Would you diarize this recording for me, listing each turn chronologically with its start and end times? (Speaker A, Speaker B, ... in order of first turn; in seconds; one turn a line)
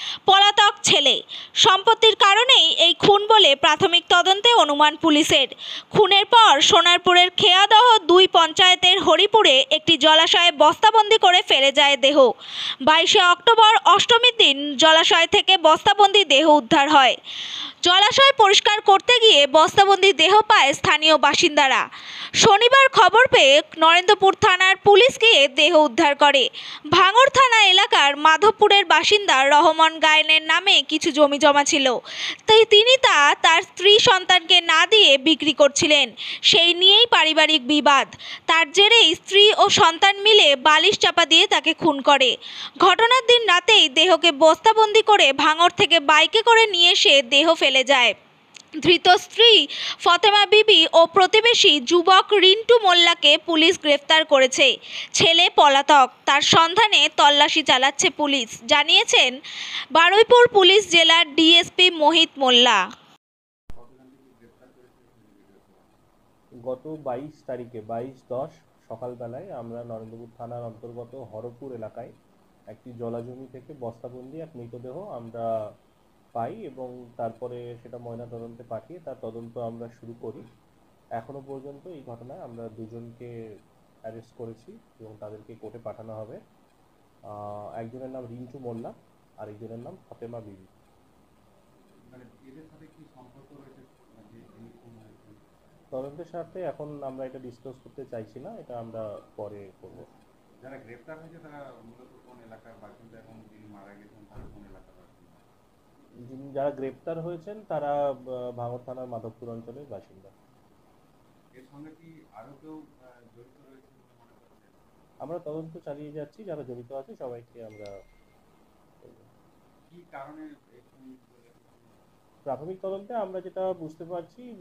Speaker A: 0.3-12.3
Speaker A: 12.9-17.2
Speaker A: 17.8-21.8
Speaker A: 22.4-31.9
Speaker A: 32.5-48.1
Speaker A: 48.8-59.3
Speaker A: 60.0-62.8
Speaker B: 63.8-66.0
Speaker C: 66.7-72.1
Speaker C: 72.7-75.4
Speaker C: 76.4-80.5
Speaker C: 81.2-83.3
Speaker C: 84.1-86.4
Speaker C: 87.3-90.7
Speaker B: 92.1-95.4
Speaker C: 95.9-100.0
Speaker B: 100.6-105.4
Speaker C: 106.3-108.0
Speaker C: 108.6-110.3
Speaker B: 111.6-114.8
Speaker C: 115.2-117.9
Speaker B: 119.9-122.0
Speaker C: 122.5-124.5